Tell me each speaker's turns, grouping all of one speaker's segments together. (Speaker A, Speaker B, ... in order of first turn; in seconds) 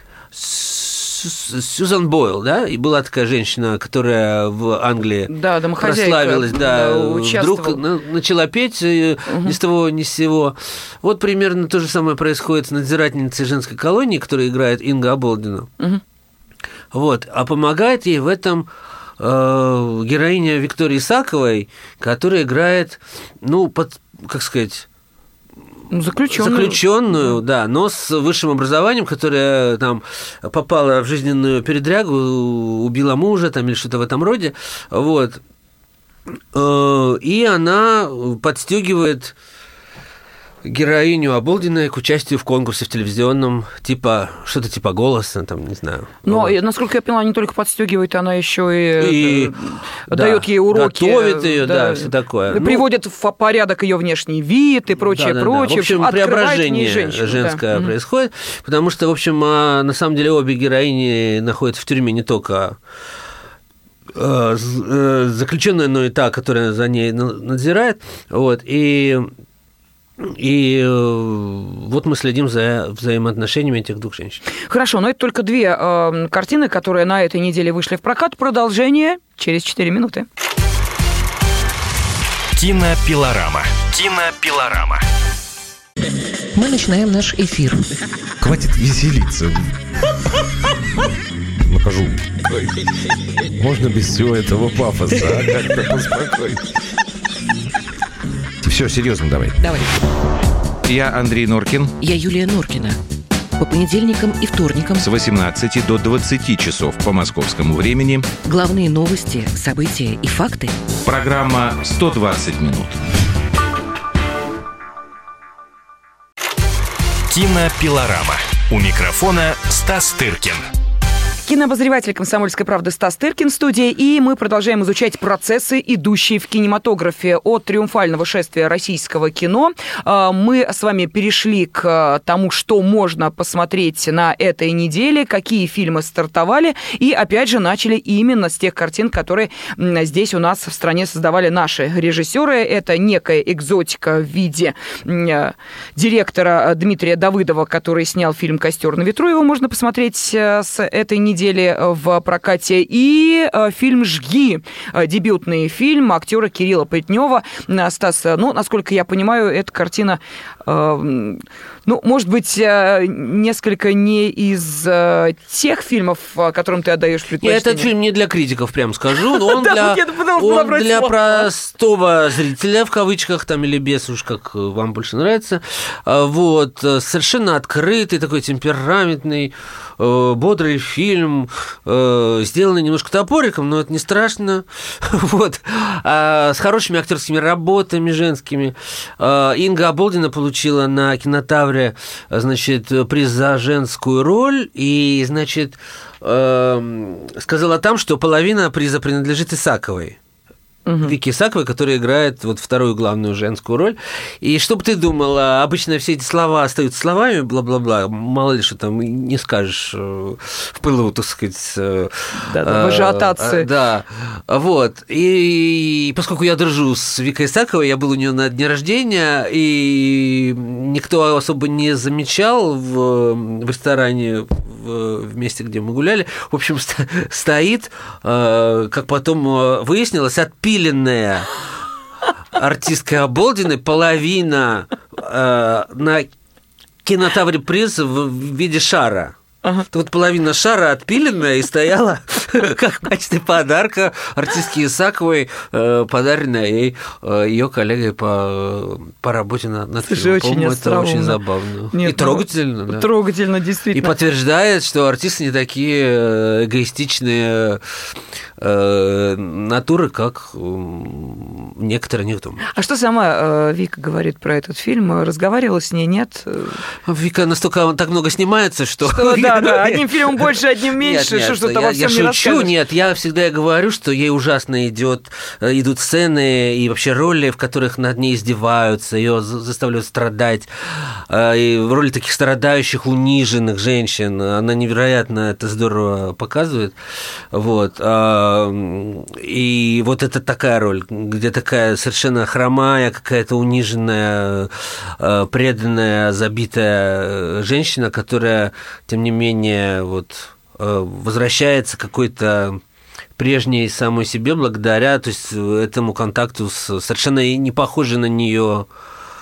Speaker A: 0.3-15.7, 16.9-24.9, 26.3-35.4, 36.5-39.3, 40.6-46.5, 49.0-49.5, 50.1-52.9, 55.0-62.8, 64.1-69.3, 70.2-74.4, 167.4-200.2, 201.0-231.5, 232.5-236.3, 237.0-239.3, 239.9-253.1, 253.9-262.6, 267.0-286.9, 287.5-302.8, 303.4-308.9
Speaker B: 5.3-7.8, 9.3-9.5, 25.9-27.4, 46.2-57.9, 74.7-80.2, 121.4-167.9, 169.2-171.5, 200.8-201.2, 212.4-213.7, 250.0-251.4, 251.9-254.1, 262.7-266.8, 269.0-272.7
Speaker C: 82.5-85.0, 117.3-120.6
Speaker D: 86.5-87.8, 99.6-99.9, 102.0-103.0, 103.6-105.1, 108.4-110.8
Speaker E: 88.4-89.7, 91.6-92.7, 93.6-96.6, 98.6-99.6, 100.8-101.9, 105.0-108.3, 111.0-113.0